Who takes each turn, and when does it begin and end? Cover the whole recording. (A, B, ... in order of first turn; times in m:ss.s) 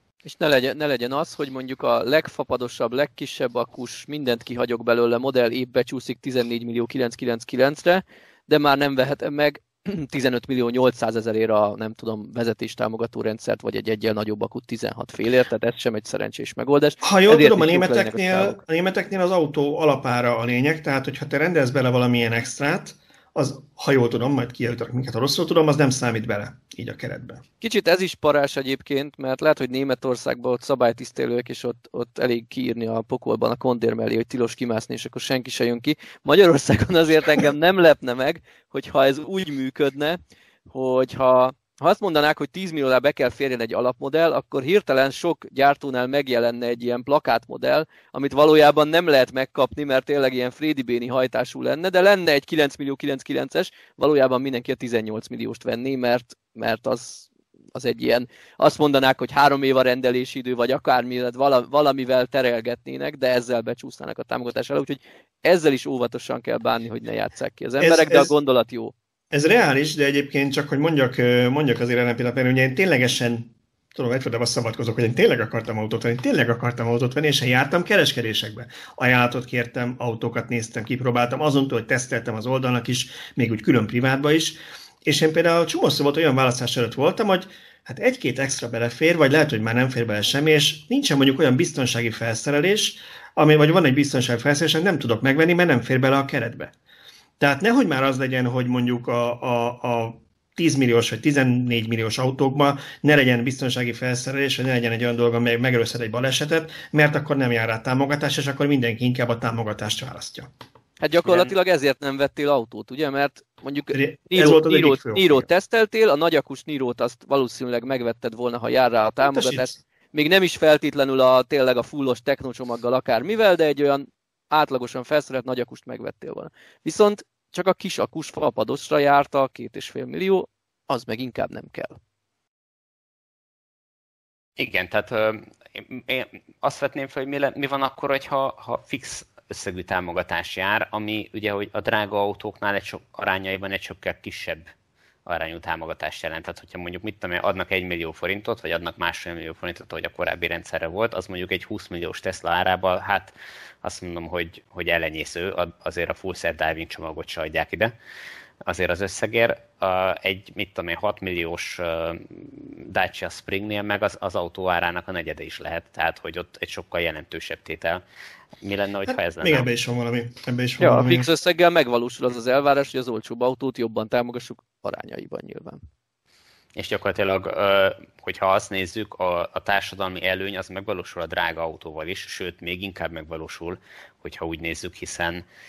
0:00.2-0:18.6 A
0:17.0-0:27.4 B
0:27.6-1:08.9 A
1:07.8-1:08.3 B
1:09.3-1:36.7 B
1:37.4-1:50.5 B
1:51.0-2:12.0 A
1:53.9-1:55.5 B
1:59.2-1:59.8 B
2:14.6-2:24.7 C
2:25.3-2:37.9 C
2:38.6-2:48.0 C
2:48.6-2:49.7 C
2:49.4-2:51.3 B
2:50.8-2:55.8 A
2:56.8-3:05.4 C